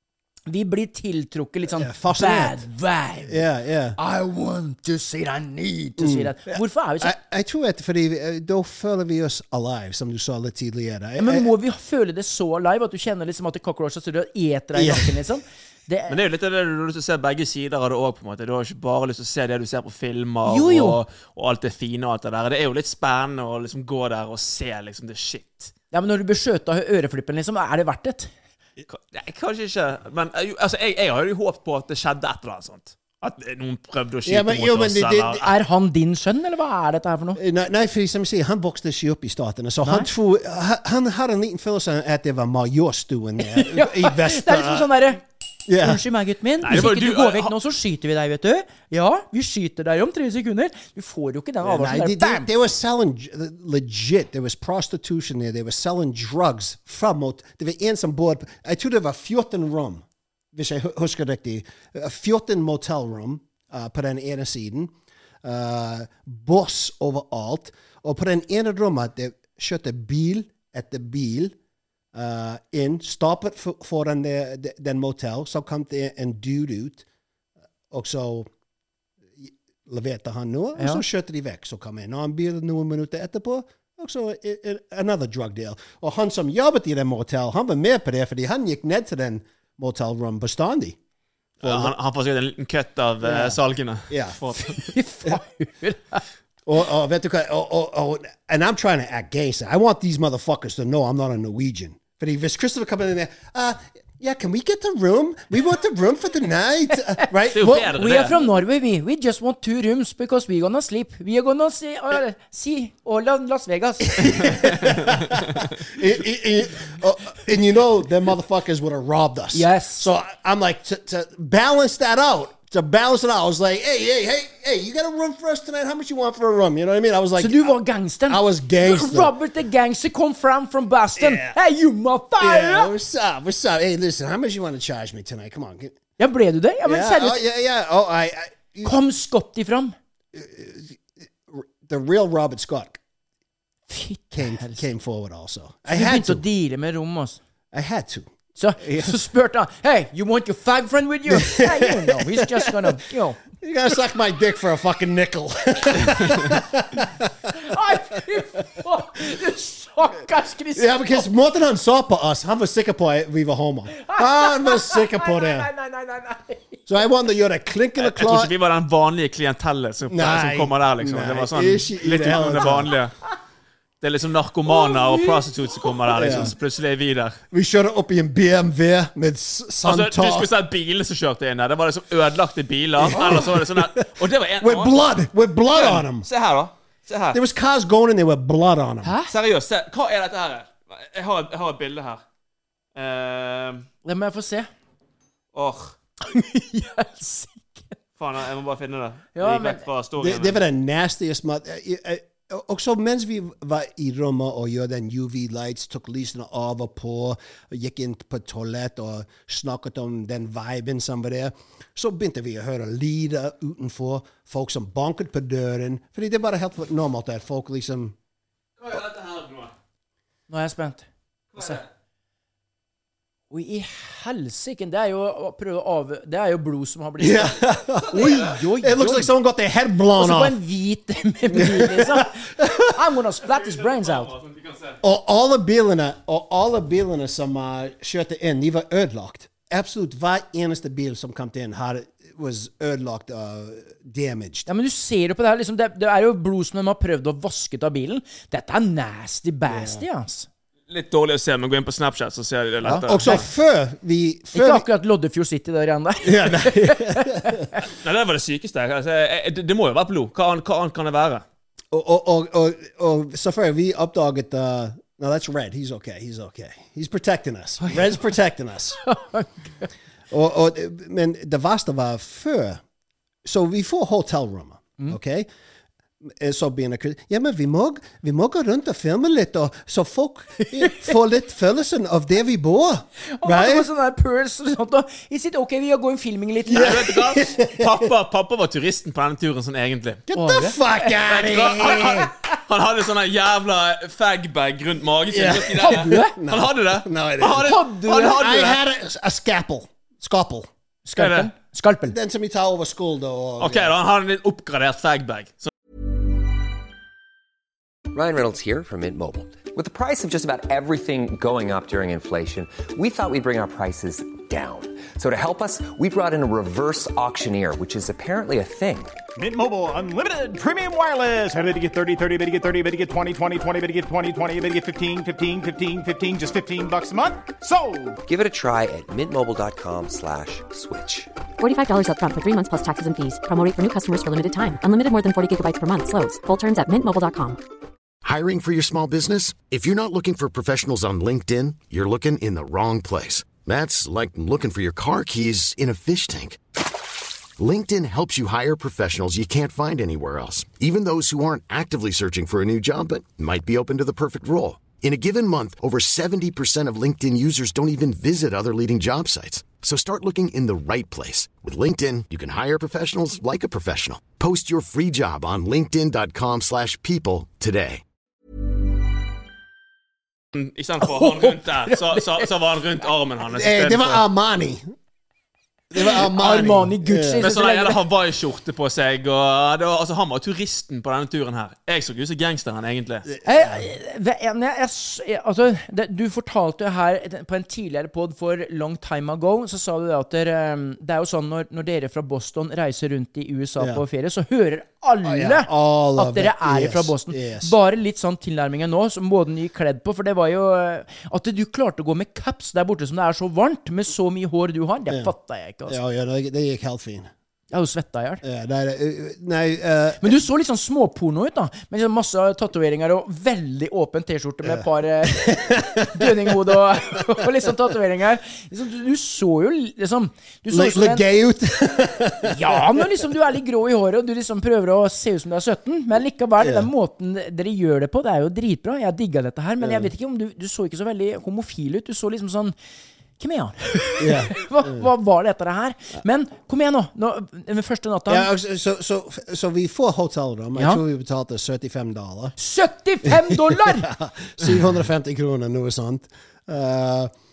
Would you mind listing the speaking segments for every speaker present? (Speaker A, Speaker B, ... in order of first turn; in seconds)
Speaker A: 0.5-3.4, 4.0-7.2, 11.2-16.2, 20.5-21.0, 25.9-28.3, 35.4-37.4, 39.8-40.1, 43.4-45.2, 45.8-52.5, 80.8-81.0, 94.6-96.2, 107.2-114.6, 119.5-120.1, 127.4-132.9, 136.2-137.4, 138.8-140.0, 143.9-144.8, 145.9-147.4, 148.6-153.4, 157.5-161.3, 164.0-166.8, 174.7-176.5, 189.0-189.3, 194.0-194.7, 196.2-198.0, 199.3-199.8, 220.5-221.1, 221.6-221.8, 223.5-229.3, 230.2-234.3, 244.7-250.5, 252.8-253.4, 254.5-257.8, 267.8-268.1, 269.0-269.9, 280.6-281.2, 283.2-287.1, 290.3-291.1, 295.8-296.4, 297.6-298.4, 301.1-302.2, 371.0-372.5, 375.9-378.0, 383.4-406.0, 407.7-408.4, 410.2-421.2, 422.4-432.8, 433.4-438.5, 440.8-441.0, 442.6-444.1
Speaker B: 1.7-2.7, 3.3-4.0, 6.0-11.5, 14.7-15.2, 34.2-35.5, 37.4-44.9, 45.7-46.0, 51.6-71.5, 72.1-77.0, 77.9-78.5, 79.4-91.0, 91.6-91.9, 93.2-93.6, 94.1-94.4, 96.7-107.9, 114.2-129.3, 131.2-131.6, 132.4-136.0, 136.8-138.9, 140.3-143.0, 144.3-146.4, 147.7-149.2, 151.3-153.0, 153.6-157.6, 160.8-165.7, 166.9-168.5, 170.1-172.9, 176.2-176.5, 177.5-180.5, 183.0-184.1, 184.6-186.3, 187.3-189.1, 200.2-218.2, 227.2-230.6, 231.5-232.9, 235.0-244.7, 249.7-250.0, 252.9-254.9, 256.2-257.7, 261.9-269.0, 270.3-272.8, 273.4-275.5, 276.2-283.9, 286.7-288.1, 290.3-292.3, 295.3-300.7, 302.1-303.9, 373.5-374.8, 375.9-377.5, 383.3-383.9, 395.2-397.7, 405.9-407.3, 408.4-410.4, 414.7-416.7, 420.7-423.1, 426.6-426.9, 429.8-430.1, 434.2-435.1, 438.3-442.6, 443.2-447.3
Speaker C: 16.1-25.7, 28.9-35.5, 46.6-47.5, 91.6-94.9, 107.5-108.3, 168.0-173.1, 174.0-177.4, 179.8-185.0, 185.7-187.4, 189.3-192.2, 192.9-193.9, 195.5-195.9, 198.2-200.6, 218.8-219.7, 221.6-221.8, 233.6-235.0, 250.9-253.4, 257.9-261.4, 286.8-290.2, 291.2-298.8, 301.2-301.5, 303.6-305.7, 370.5-374.2, 377.4-383.3
Speaker D: 308.1-319.2, 328.3-331.3
Speaker E: 319.4-328.2
Speaker F: 331.6-337.6
Speaker G: 338.2-346.6, 347.6-368.0